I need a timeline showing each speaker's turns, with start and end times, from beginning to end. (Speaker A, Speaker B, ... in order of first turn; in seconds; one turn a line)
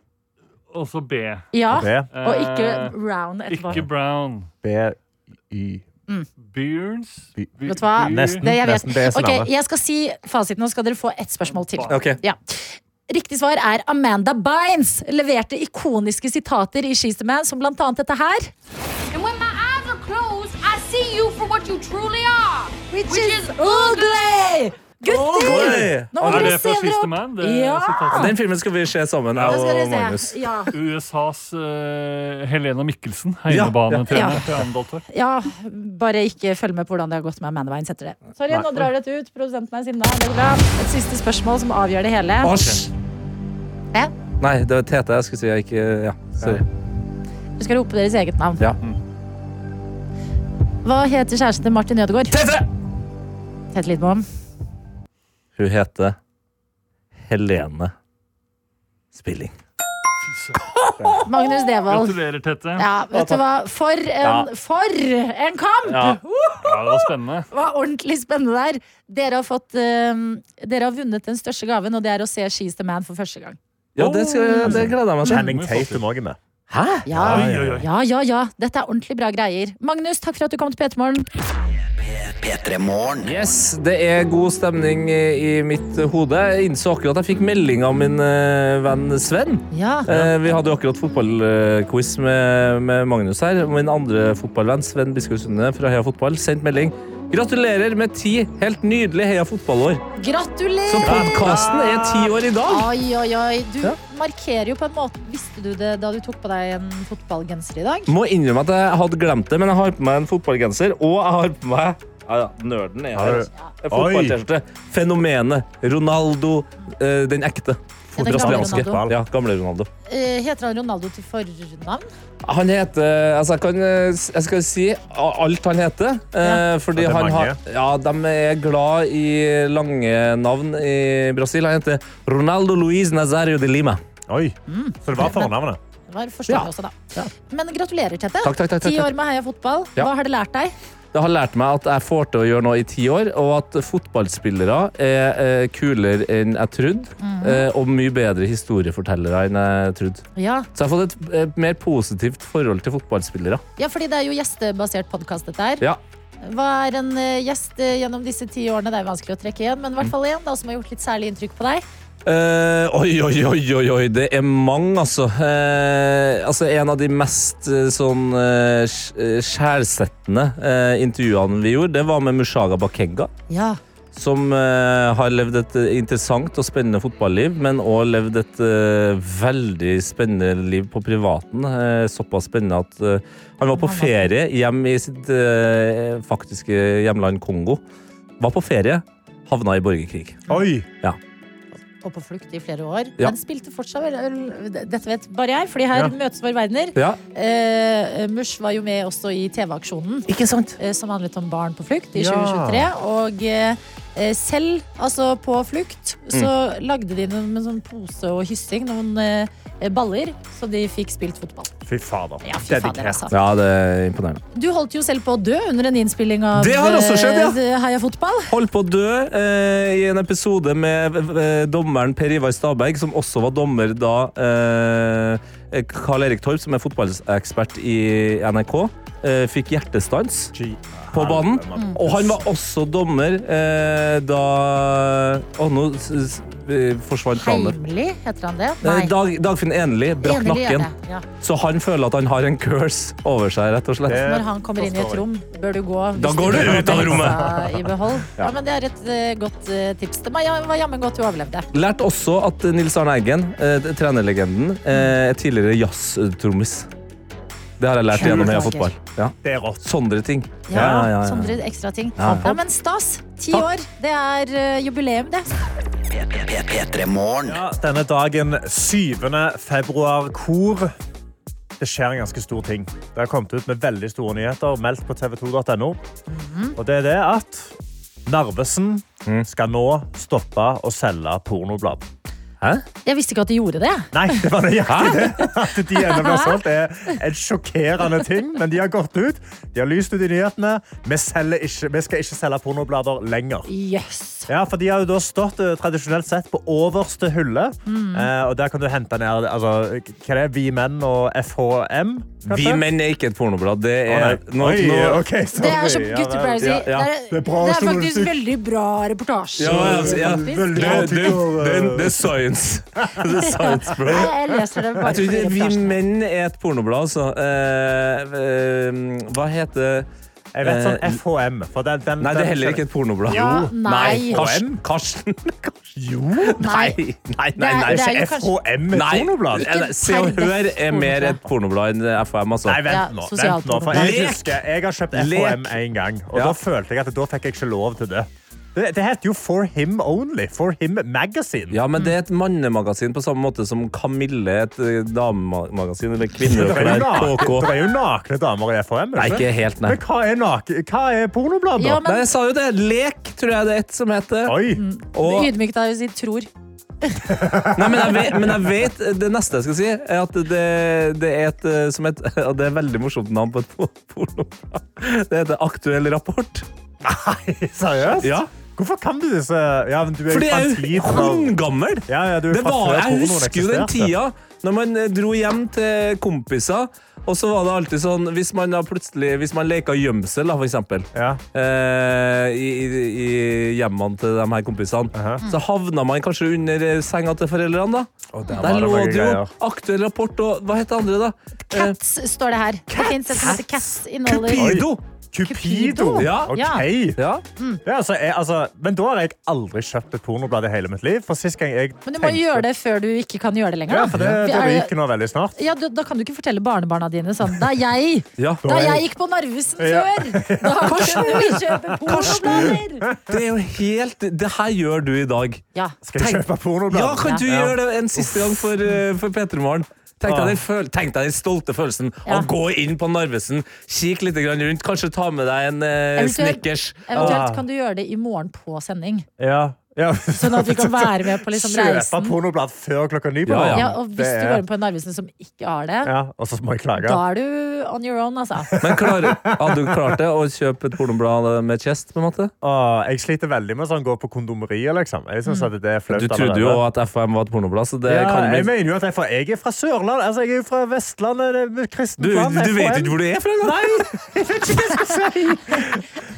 Speaker A: 0.7-1.6
Speaker B: 1.5-3.8
Speaker C: 1.7-2.1
Speaker A: 2.1-4.5
Speaker C: 4.6-5.8
Speaker A: 6.4-8.4
Speaker C: 7.4-9.5
Speaker B: 7.7-18.5
Speaker A: 11.4-12.0
Speaker D: 11.9-12.2
Speaker E: 19.1-24.2
Speaker B: 22.9-28.3
Speaker D: 25.1-26.6
Speaker A: 25.4-28.3
Speaker D: 28.1-30.4
Speaker B: 29.4-30.7
Speaker A: 30.7-35.0
Speaker D: 33.5-34.6
Speaker B: 34.1-34.4
Speaker B: 35.1-42.5
Speaker D: 42.4-42.9
Speaker D: 44.4-46.6
Speaker B: 47.6-48.7
Speaker B: 50.8-52.4
Speaker D: 52.3-52.6
Speaker B: 53.7-54.2
Speaker D: 55.5-56.2
Speaker D: 57.2-57.9
Speaker D: 59.1-59.5
Speaker A: 60.2-60.6
Speaker B: 61.2-62.2
Speaker A: 61.8-62.9
Speaker B: 62.8-73.6
Speaker D: 63.1-63.4
Speaker D: 65.9-66.2
Speaker A: 66.6-67.5
Speaker D: 74.0-75.5
Speaker A: 74.0-74.7
Speaker B: 74.4-75.4
Speaker C: 75.2-76.4
Speaker A: 75.3-76.0
Speaker D: 76.7-77.5
Speaker B: 77.0-81.2
Speaker C: 77.1-77.8
Speaker A: 77.3-77.8
Speaker F: 81.9-83.5
Speaker D: 83.2-100.0
Speaker B: 89.7-90.1
Speaker B: 100.2-101.7
Speaker D: 100.9-102.9
Speaker C: 101.1-101.5
Speaker B: 102.7-108.1
Speaker D: 108.1-119.9
Speaker C: 113.1-114.4
Speaker C: 118.1-119.2
Speaker B: 118.2-119.0
Speaker B: 120.0-122.1
Speaker D: 122.4-134.0
Speaker C: 126.9-127.6
Speaker C: 134.3-135.8
Speaker B: 134.7-135.5
Speaker B: 136.1-140.7
Speaker D: 136.5-137.3
Speaker D: 138.4-139.1
Speaker D: 141.1-150.2
Speaker B: 147.2-147.7
Speaker B: 150.3-150.7
Speaker D: 150.7-153.6
Speaker B: 153.8-155.8
Speaker B: 156.4-161.8
Speaker D: 162.2-173.3
Speaker B: 173.5-173.8
Speaker D: 174.1-187.8
Speaker B: 183.7-184.3
Speaker D: 188.4-190.4
Speaker C: 190.5-190.9
Speaker B: 192.0-211.7
Speaker D: 200.3-200.8
Speaker C: 202.1-202.9
Speaker C: 211.8-213.3
Speaker B: 212.4-213.3
Speaker D: 213.3-214.4
Speaker B: 214.5-218.5
Speaker D: 216.5-217.6
Speaker D: 218.5-230.5
Speaker C: 230.5-232.4
Speaker D: 231.1-237.7
Speaker B: 237.3-239.1
Speaker D: 238.8-240.9
Speaker B: 240.2-241.2
Speaker D: 241.4-244.3
Speaker C: 244.1-245.2
Speaker B: 244.1-251.7
Speaker D: 246.2-247.4
Speaker C: 246.5-247.8
Speaker D: 251.7-256.9
Speaker D: 257.8-261.6
Speaker B: 258.1-258.9
Speaker C: 259.4-259.8
Speaker B: 260.7-265.5
Speaker C: 260.7-261.0
Speaker D: 262.2-262.5
Speaker F: 266.1-267.6
Speaker C: 267.4-270.9
Speaker C: 271.8-276.0
Speaker B: 276.3-276.8
Speaker C: 276.8-277.7
Speaker C: 278.2-282.0
Speaker B: 283.0-286.6
Speaker C: 284.1-293.7
Speaker D: 284.9-285.2
Speaker B: 293.7-294.5
Speaker C: 294.5-302.8
Speaker B: 297.9-298.3
Speaker D: 302.5-305.2
Speaker C: 304.1-308.4
Speaker B: 305.5-311.3
Speaker D: 306.6-307.1
Speaker D: 309.6-314.3
Speaker C: 309.6-312.3
Speaker B: 313.2-316.0
Speaker D: 315.0-320.1
Speaker C: 320.5-322.8
Speaker D: 320.6-321.2
Speaker D: 322.2-328.2
Speaker B: 323.3-324.4
Speaker C: 324.0-324.8
Speaker C: 325.9-326.6
Speaker B: 326.6-327.0
Speaker B: 327.6-328.5
Speaker C: 327.7-329.7
Speaker D: 328.9-332.8
Speaker B: 329.5-331.4
Speaker C: 332.6-341.8
Speaker B: 332.9-334.2
Speaker D: 333.9-334.6
Speaker D: 335.1-335.8
Speaker D: 336.3-336.6
Speaker D: 341.7-347.7
Speaker C: 346.4-352.0
Speaker D: 349.1-350.0
Speaker B: 351.8-352.2
Speaker D: 352.0-354.6
Speaker C: 354.4-354.8
Speaker B: 354.7-356.5
Speaker D: 355.1-355.5
Speaker C: 357.3-358.6
Speaker D: 357.7-366.6
Speaker C: 367.0-371.5
Speaker D: 368.2-368.5
Speaker D: 370.3-392.0
Speaker C: 372.1-374.1
Speaker C: 381.1-381.4
Speaker C: 385.1-385.4
Speaker C: 388.3-389.5
Speaker B: 391.7-394.8
Speaker D: 392.9-393.6
Speaker D: 394.3-395.0
Speaker C: 394.4-397.2
Speaker B: 395.4-396.8
Speaker D: 396.2-396.5
Speaker D: 397.1-397.4
Speaker C: 397.8-402.6
Speaker B: 402.0-404.9
Speaker C: 403.9-405.6
Speaker D: 404.1-404.4
Speaker B: 405.6-413.1
Speaker D: 408.4-408.6
Speaker C: 408.6-409.0
Speaker C: 409.8-413.4
Speaker D: 410.8-415.6
Speaker C: 416.0-418.7
Speaker D: 416.2-427.4
Speaker C: 420.2-420.6
Speaker B: 426.2-429.3
Speaker C: 427.1-427.6
Speaker C: 429.4-434.6
Speaker B: 430.4-432.4
Speaker D: 433.5-433.9
Speaker B: 433.7-436.1
Speaker C: 436.0-437.2
Speaker B: 437.0-438.7
Speaker C: 438.7-440.2
Speaker D: 438.8-442.5
Speaker C: 442.6-446.8
Speaker D: 446.1-448.7
Speaker C: 448.1-456.0
Speaker D: 452.2-454.1